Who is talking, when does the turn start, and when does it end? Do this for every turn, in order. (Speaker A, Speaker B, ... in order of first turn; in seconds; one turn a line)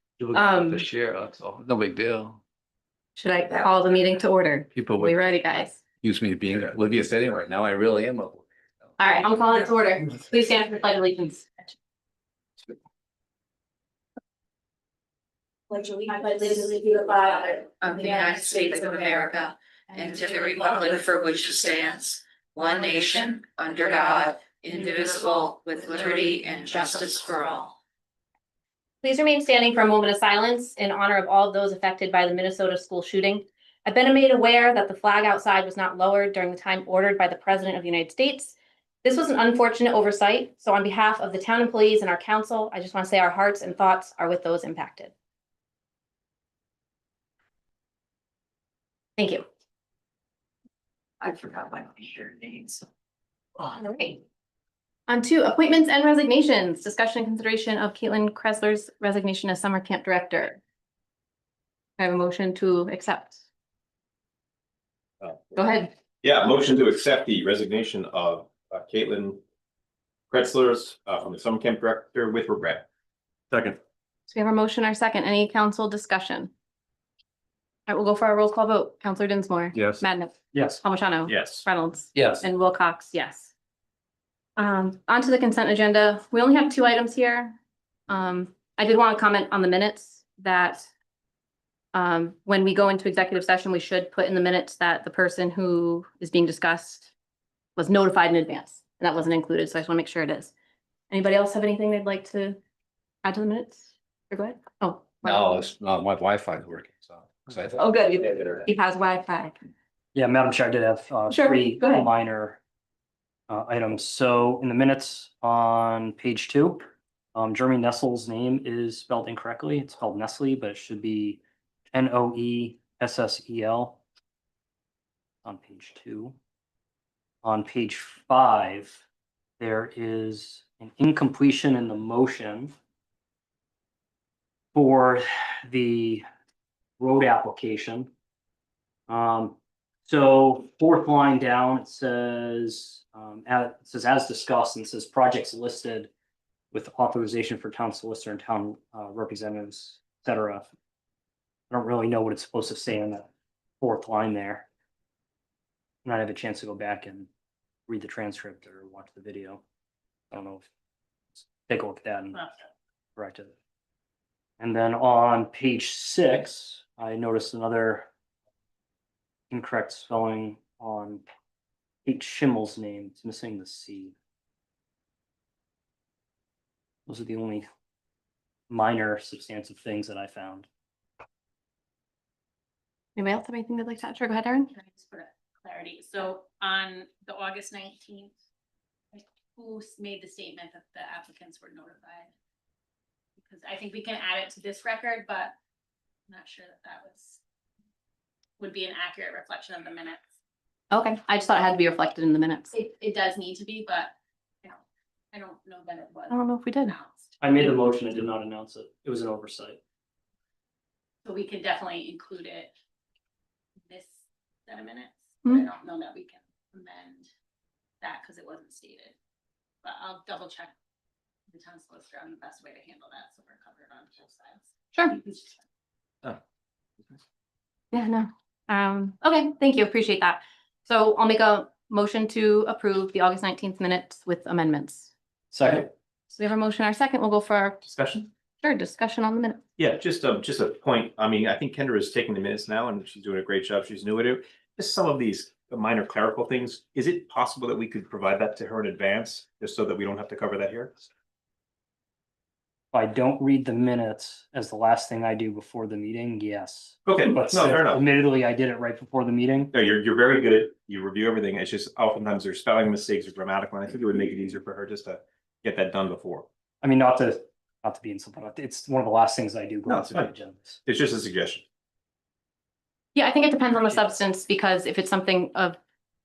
Speaker A: 0.2-2.4
Speaker B: 0.3-0.8
Speaker B: 3.2-5.8
Speaker A: 4.7-5.2
Speaker A: 6.0-8.5
Speaker B: 9.0-11.7
Speaker B: 15.9-18.3
Speaker C: 17.8-27.7
Speaker B: 29.0-45.1
Speaker B: 49.2-49.4
Speaker B: 53.7-54.2
Speaker B: 55.1-60.6
Speaker B: 62.0-63.4
Speaker D: 65.2-65.5
Speaker B: 65.5-65.9
Speaker D: 66.2-69.4
Speaker D: 70.3-72.8
Speaker B: 74.3-76.5
Speaker B: 77.9-83.5
Speaker E: 80.5-80.8
Speaker D: 81.3-81.7
Speaker A: 82.1-82.4
Speaker B: 84.6-87.6
Speaker B: 88.1-90.9
Speaker B: 91.9-97.1
Speaker B: 97.8-100.5
Speaker B: 101.1-102.6
Speaker B: 103.2-105.5
Speaker A: 105.2-108.6
Speaker B: 107.8-109.6
Speaker E: 110.1-112.6
Speaker B: 111.3-112.0
Speaker E: 113.5-116.8
Speaker E: 117.3-121.4
Speaker E: 121.9-124.0
Speaker E: 125.4-126.3
Speaker E: 127.4-129.0
Speaker E: 129.6-132.7
Speaker E: 134.7-136.2
Speaker E: 137.0-138.1
Speaker E: 139.1-146.1
Speaker E: 146.7-150.7
Speaker E: 151.7-153.3
Speaker E: 153.8-154.7
Speaker E: 156.0-157.3
Speaker E: 157.9-159.6
Speaker E: 160.3-160.7
Speaker E: 161.4-162.4
Speaker F: 162.3-162.6
Speaker E: 163.2-163.5
Speaker E: 164.6-168.1
Speaker E: 169.5-171.2
Speaker E: 172.0-174.1
Speaker E: 177.1-177.7
Speaker E: 178.7-180.7
Speaker B: 183.2-184.7
Speaker F: 184.7-188.3
Speaker F: 189.1-192.3
Speaker F: 193.4-195.5
Speaker F: 196.3-197.4
Speaker F: 198.6-200.3
Speaker B: 200.9-202.7
Speaker F: 202.7-204.8
Speaker F: 205.3-207.4
Speaker B: 206.3-206.9
Speaker E: 207.4-209.8
Speaker F: 211.2-212.7
Speaker F: 213.8-217.3
Speaker F: 218.0-219.1
Speaker F: 219.8-220.7
Speaker F: 221.5-225.6
Speaker B: 227.9-235.1
Speaker E: 235.5-235.9
Speaker B: 236.3-237.8
Speaker D: 237.8-238.3
Speaker B: 238.6-239.6
Speaker D: 239.8-251.0
Speaker E: 252.9-259.7
Speaker D: 257.1-258.0
Speaker D: 259.7-266.4
Speaker E: 266.8-270.8
Speaker D: 269.9-270.3
Speaker D: 270.8-271.6
Speaker B: 273.1-275.8